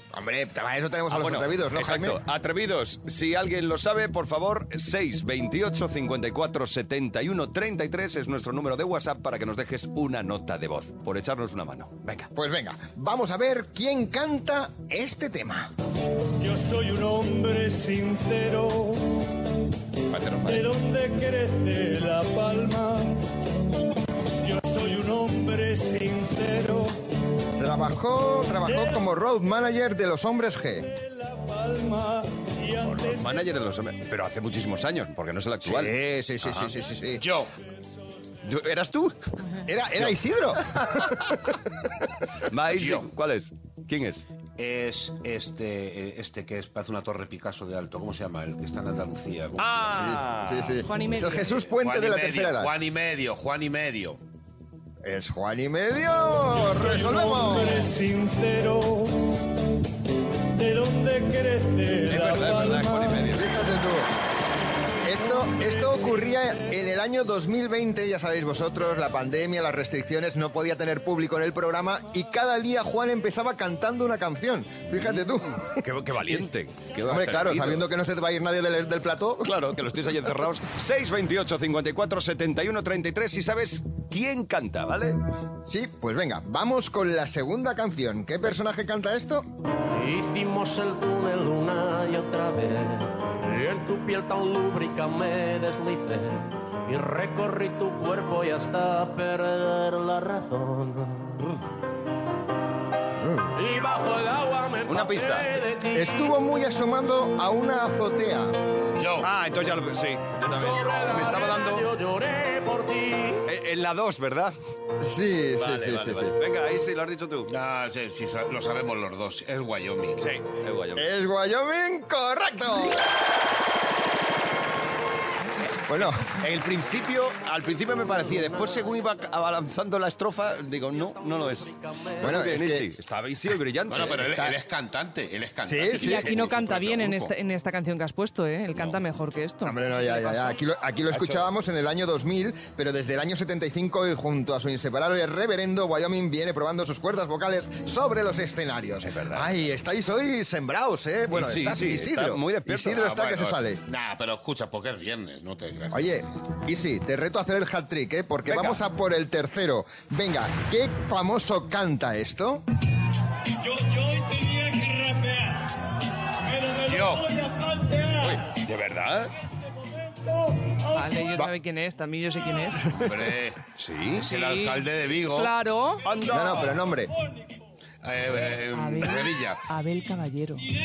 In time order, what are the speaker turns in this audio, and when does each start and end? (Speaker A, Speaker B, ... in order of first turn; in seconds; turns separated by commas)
Speaker A: 0.1-2.2, Speaker B: 1.1-12.3, Speaker A: 12.3-15.7, Speaker C: 16.4-19.2, Speaker D: 20.1-20.7, Speaker C: 20.4-23.3, Speaker C: 24.4-27.0, Speaker A: 27.6-30.9, Speaker C: 28.6-29.1, Speaker C: 30.9-33.6, Speaker B: 32.9-36.7, Speaker A: 35.6-37.2, Speaker D: 37.2-37.5, Speaker B: 38.4-39.1, Speaker A: 39.7-40.6, Speaker B: 39.9-41.4, Speaker B: 42.5-44.2, Speaker D: 42.7-43.1, Speaker D: 44.6-50.1, Speaker B: 49.6-50.8, Speaker A: 49.9-52.7, Speaker E: 50.8-51.7, Speaker D: 51.8-54.2, Speaker A: 55.0-57.9, Speaker C: 56.6-59.3, Speaker C: 60.5-63.3, Speaker B: 62.1-63.5, Speaker A: 63.3-64.1, Speaker A: 65.0-75.8, Speaker C: 65.2-66.4, Speaker B: 75.0-77.9, Speaker A: 77.0-79.5, Speaker B: 79.4-85.2, Speaker A: 85.7-89.5, Speaker F: 89.9-101.3, Speaker A: 103.2-103.5, Speaker F: 103.5-106.2, Speaker B: 104.9-105.6, Speaker A: 105.9-108.5, Speaker D: 109.0-109.3, Speaker B: 109.2-111.8, Speaker F: 110.4-113.4, Speaker B: 113.5-114.5, Speaker A: 115.0-116.4, Speaker B: 115.5-117.5, Speaker D: 117.5-120.2, Speaker B: 120.2-121.1, Speaker A: 121.0-123.0, Speaker A: 125.9-126.3, Speaker B: 126.0-134.5, Speaker F: 127.7-129.3, Speaker F: 130.9-132.4, Speaker A: 132.2-132.9, Speaker D: 133.9-137.3, Speaker A: 135.6-136.4, Speaker E: 135.9-140.6, Speaker B: 138.7-139.0, Speaker A: 139.6-153.8, Speaker B: 141.1-141.5, Speaker B: 149.0-149.5, Speaker B: 151.3-153.1, Speaker D: 152.9-156.1, Speaker A: 155.9-162.6, Speaker D: 166.8-167.4, Speaker B: 168.5-169.3, Speaker E: 170.9-172.9, Speaker D: 172.8-173.6, Speaker B: 173.8-174.3, Speaker D: 174.2-175.5, Speaker E: 174.2-176.1, Speaker B: 176.0-176.8, Speaker A: 176.2-177.1, Speaker D: 178.0-179.7, Speaker E: 178.8-180.7